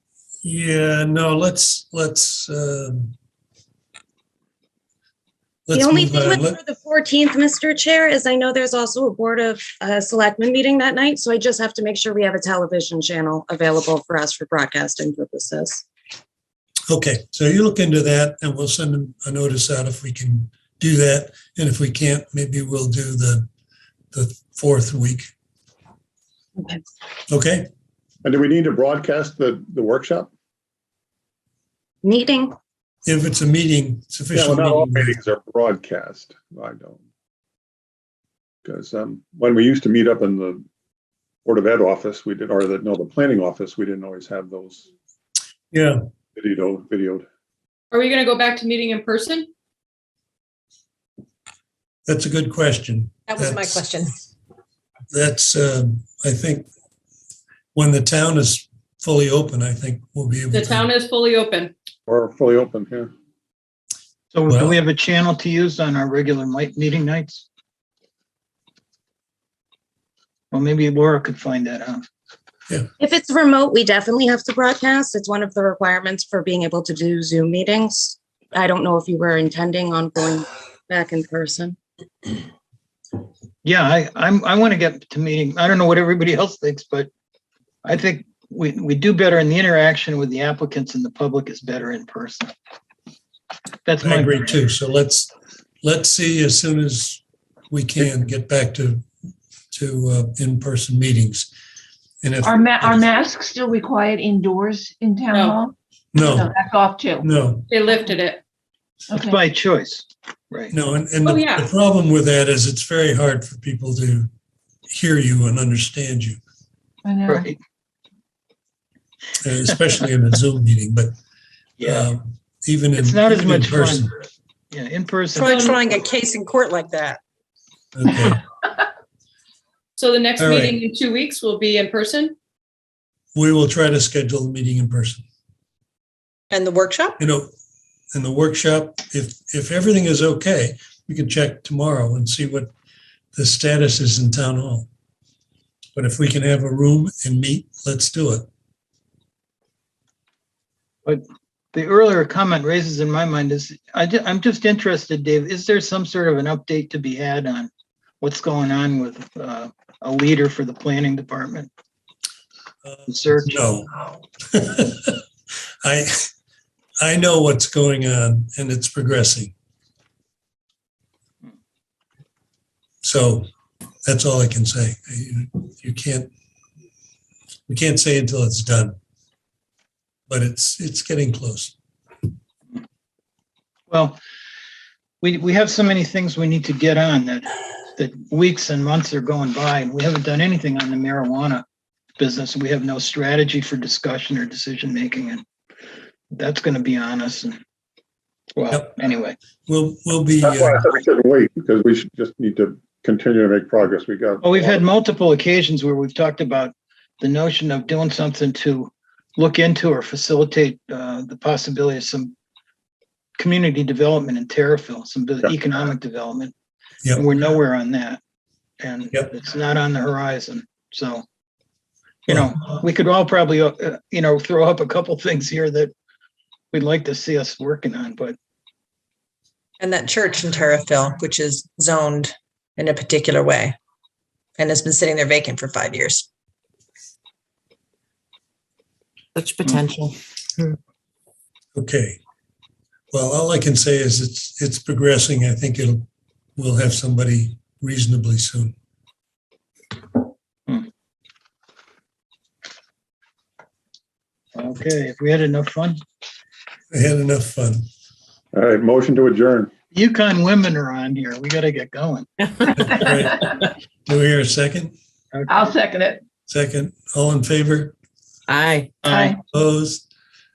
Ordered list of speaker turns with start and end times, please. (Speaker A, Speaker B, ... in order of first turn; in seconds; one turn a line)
Speaker A: 0.4-3.1
Speaker A: 5.7-6.5
Speaker B: 5.7-15.8
Speaker A: 16.9-23.5
Speaker A: 24.1-25.3
Speaker A: 27.3-27.7
Speaker C: 28.2-30.3
Speaker B: 32.0-32.5
Speaker A: 33.0-35.1
Speaker C: 34.3-37.0
Speaker C: 38.6-40.6
Speaker C: 41.4-44.9
Speaker A: 45.7-46.0
Speaker C: 46.3-47.2
Speaker D: 47.9-49.5
Speaker A: 52.0-53.9
Speaker E: 53.3-54.1
Speaker A: 55.1-56.7
Speaker A: 57.7-60.9
Speaker D: 60.5-61.7
Speaker C: 62.1-63.1
Speaker F: 64.3-67.5
Speaker A: 64.5-64.7
Speaker F: 70.5-72.0
Speaker B: 73.0-81.8
Speaker F: 83.6-87.1
Speaker F: 87.8-92.5
Speaker F: 93.8-94.5
Speaker A: 94.0-99.0
Speaker A: 99.7-101.5
Speaker A: 102.2-103.1
Speaker G: 102.4-107.3
Speaker D: 105.3-105.6
Speaker A: 106.1-106.5
Speaker A: 107.2-107.7
Speaker D: 107.7-108.4
Speaker G: 109.1-109.4
Speaker F: 109.2-110.7
Speaker A: 110.7-114.3
Speaker D: 111.2-111.7
Speaker A: 114.9-116.4
Speaker G: 117.0-117.5
Speaker F: 117.3-117.6
Speaker A: 119.4-121.1
Speaker F: 121.8-122.1
Speaker A: 121.8-124.1
Speaker F: 123.0-124.1
Speaker F: 124.7-125.4
Speaker E: 125.3-127.2
Speaker D: 125.4-125.8
Speaker A: 127.9-128.4
Speaker D: 130.0-132.3
Speaker A: 130.4-130.8
Speaker A: 133.3-135.2
Speaker E: 136.5-137.2
Speaker A: 137.2-137.5
Speaker A: 138.1-142.7
Speaker A: 143.3-144.9
Speaker A: 145.9-148.4
Speaker F: 151.7-161.7
Speaker A: 162.8-163.9
Speaker F: 163.1-163.8
Speaker A: 164.5-165.2
Speaker A: 165.8-166.1
Speaker A: 167.0-169.5
Speaker A: 173.0-173.5
Speaker A: 174.0-176.3
Speaker A: 177.7-178.9
Speaker A: 180.3-181.8
Speaker F: 183.9-184.2
Speaker F: 185.2-191.6
Speaker F: 192.2-195.4
Speaker F: 196.3-197.6
Speaker F: 198.5-199.4
Speaker A: 199.7-200.8
Speaker C: 200.4-204.8
Speaker F: 204.4-212.3
Speaker F: 213.4-216.5
Speaker F: 217.1-218.2
Speaker F: 218.8-221.2
Speaker F: 222.3-225.9
Speaker F: 226.7-228.4
Speaker E: 229.8-233.8
Speaker E: 234.6-236.3
Speaker E: 239.3-240.1
Speaker A: 241.7-242.2
Speaker A: 243.1-248.7
Speaker F: 254.5-256.0
Speaker A: 256.9-257.8
Speaker C: 258.5-259.7
Speaker F: 259.9-262.3
Speaker A: 262.8-263.5
Speaker G: 262.8-263.6
Speaker A: 264.1-264.9
Speaker F: 265.3-265.7
Speaker G: 265.5-266.2
Speaker A: 266.5-267.9
Speaker E: 268.5-269.2
Speaker F: 269.1-269.3
Speaker G: 269.1-269.4
Speaker A: 269.5-270.0